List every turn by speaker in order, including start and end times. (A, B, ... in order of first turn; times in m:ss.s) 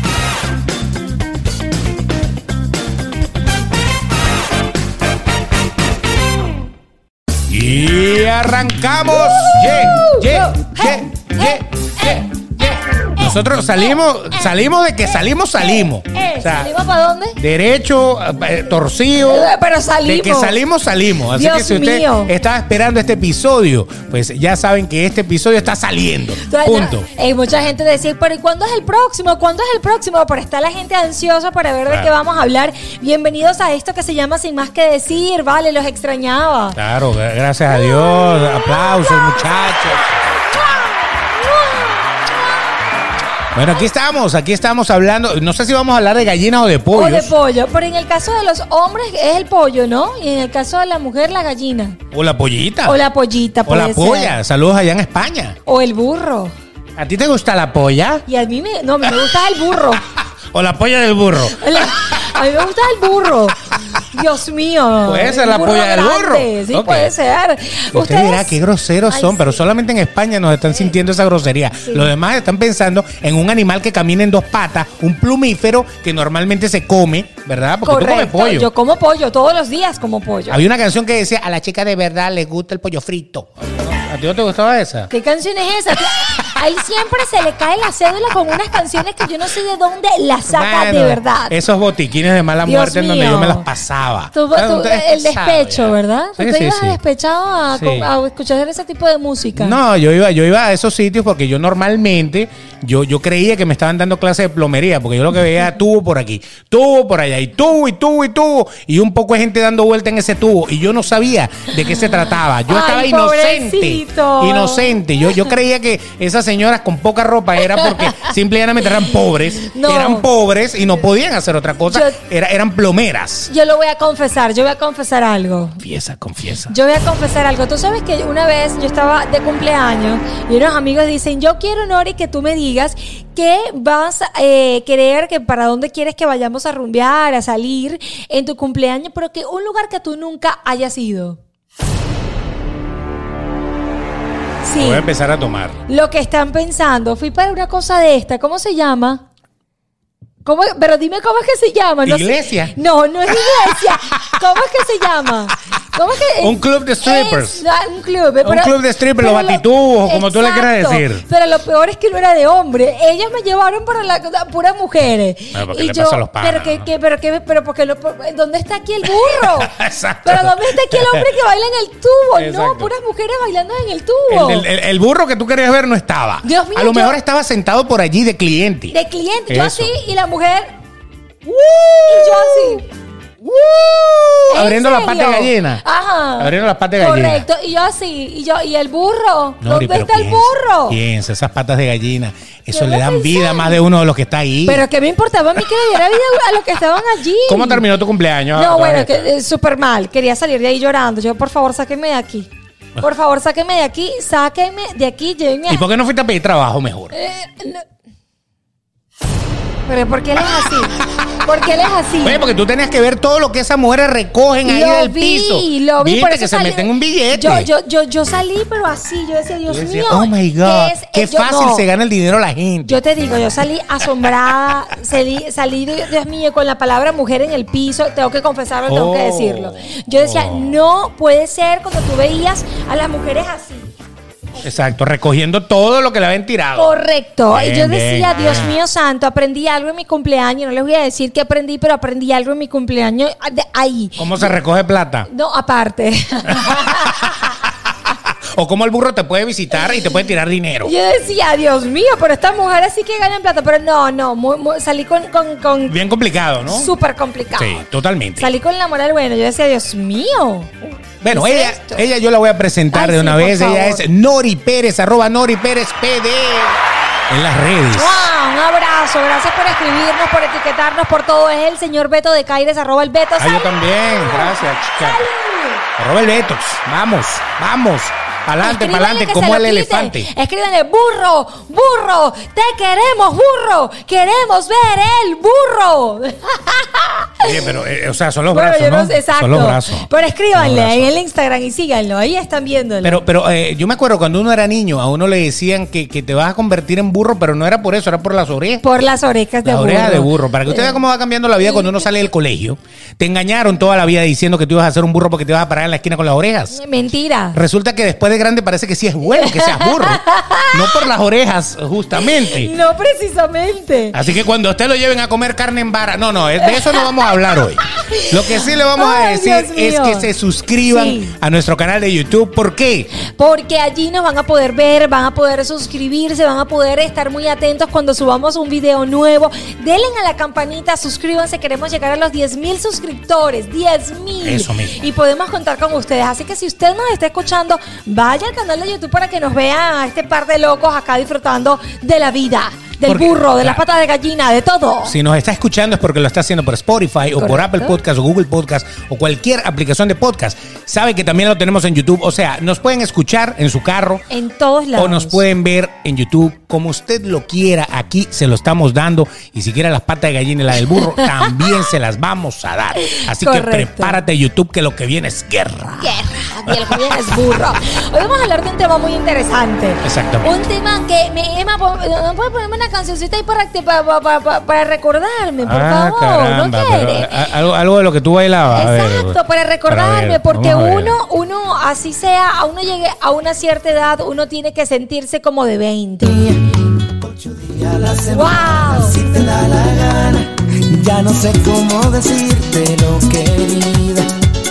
0:07.5-0:16.7 A
0:09.1-0:13.2 B
0:13.7-0:14.5 B
0:15.8-0:17.4 B
0:17.4-0:19.5 A
0:19.2-0:20.6 B
0:20.0-0:27.1 A
0:21.3-0:22.3 B
0:26.4-0:36.8 B
0:36.7-0:40.1 A
0:37.7-0:42.8 B
0:43.5-0:47.3 A
0:46.9-0:52.0 B
0:52.1-0:53.0 A
0:52.8-0:54.4 B
0:53.6-0:55.6 A
0:55.6-0:56.5 B
0:57.0-0:58.2 A
0:58.3-1:00.0 B
1:00.2-1:02.3 A
1:01.4-1:08.5 B
1:03.7-1:04.0 A
1:05.0-1:07.1 A
1:07.9-1:18.7 A
1:09.1-1:09.6 B
1:11.8-1:12.1 B
1:17.8-1:20.6 B
1:20.5-1:25.1 A
1:25.1-1:31.5 B
1:30.5-1:37.0 A
1:32.6-1:33.7 B
1:34.3-1:39.8 B
1:37.7-1:38.1 A
1:39.6-2:03.5 A
1:51.8-1:55.5 B
1:57.6-1:58.3 B
1:58.8-2:00.3 B
2:01.9-2:02.2 B
2:03.5-2:05.8 B
2:05.8-2:06.7 A
2:06.7-2:21.4 B
2:24.6-2:25.0 B
2:24.8-2:25.8 A
2:25.9-2:29.2 B
2:30.4-2:54.7 B
2:32.0-2:32.7 A
2:33.3-2:34.4 A
2:36.4-2:37.6 A
2:38.4-2:41.2 A
2:45.5-2:46.9 A
2:49.1-2:51.2 A
2:52.3-2:52.9 A
2:54.3-2:59.0 A
2:56.4-2:57.2 B
2:58.9-3:00.8 B
2:59.5-2:59.9 A
3:01.4-3:02.8 A
3:02.1-3:02.9 B
3:03.4-3:05.8 A
3:04.5-3:11.0 B
3:06.4-3:07.4 A
3:09.6-3:14.8 A
3:12.7-3:13.8 B
3:14.6-3:17.8 B
3:17.4-3:19.3 A
3:18.5-3:25.8 B
3:25.7-3:27.2 A
3:27.1-3:27.8 B
3:29.8-3:32.4 B
3:30.6-3:31.1 A
3:32.2-3:37.7 A
3:34.6-3:41.9 B
3:39.7-3:43.0 A
3:42.9-3:53.9 B
3:48.9-3:50.8 A
3:54.6-3:56.9 A
3:56.8-4:04.5 B
3:57.5-3:58.7 A
4:04.2-4:05.3 A
4:05.3-4:07.6 B
4:06.8-4:07.4 A
4:08.5-4:10.9 A
4:10.8-4:16.0 B
4:15.9-4:16.9 A
4:16.6-4:17.8 B
4:17.6-4:18.5 A
4:18.4-4:22.0 B
4:21.2-4:26.8 A
4:22.9-4:24.0 B
4:27.3-4:28.3 A
4:27.9-4:35.9 B
4:33.4-4:35.2 A
4:36.0-4:40.3 A
4:38.6-4:47.7 B
4:47.4-4:51.1 A
4:48.5-4:53.2 B
4:53.0-4:58.8 A
4:58.8-5:01.0 B
4:59.6-5:06.8 A
5:01.6-5:02.1 B
5:06.7-5:07.6 B
5:07.5-5:12.7 A
5:09.3-5:11.1 B
5:12.1-5:14.2 B
5:14.1-5:23.1 A
5:16.6-5:20.3 B
5:20.9-5:21.4 B
5:23.2-5:45.2 B
5:34.4-5:35.1 A
5:43.0-5:43.8 A
5:45.0-5:54.2 A
5:47.4-5:48.0 B
5:54.3-5:55.4 B
5:54.9-6:07.1 A
6:00.9-6:01.9 B
6:03.0-6:04.2 B
6:06.0-6:17.4 B
6:10.0-6:10.5 A
6:15.6-6:21.2 A
6:18.7-6:26.5 B
6:26.3-6:34.3 C
6:28.3-6:29.2 B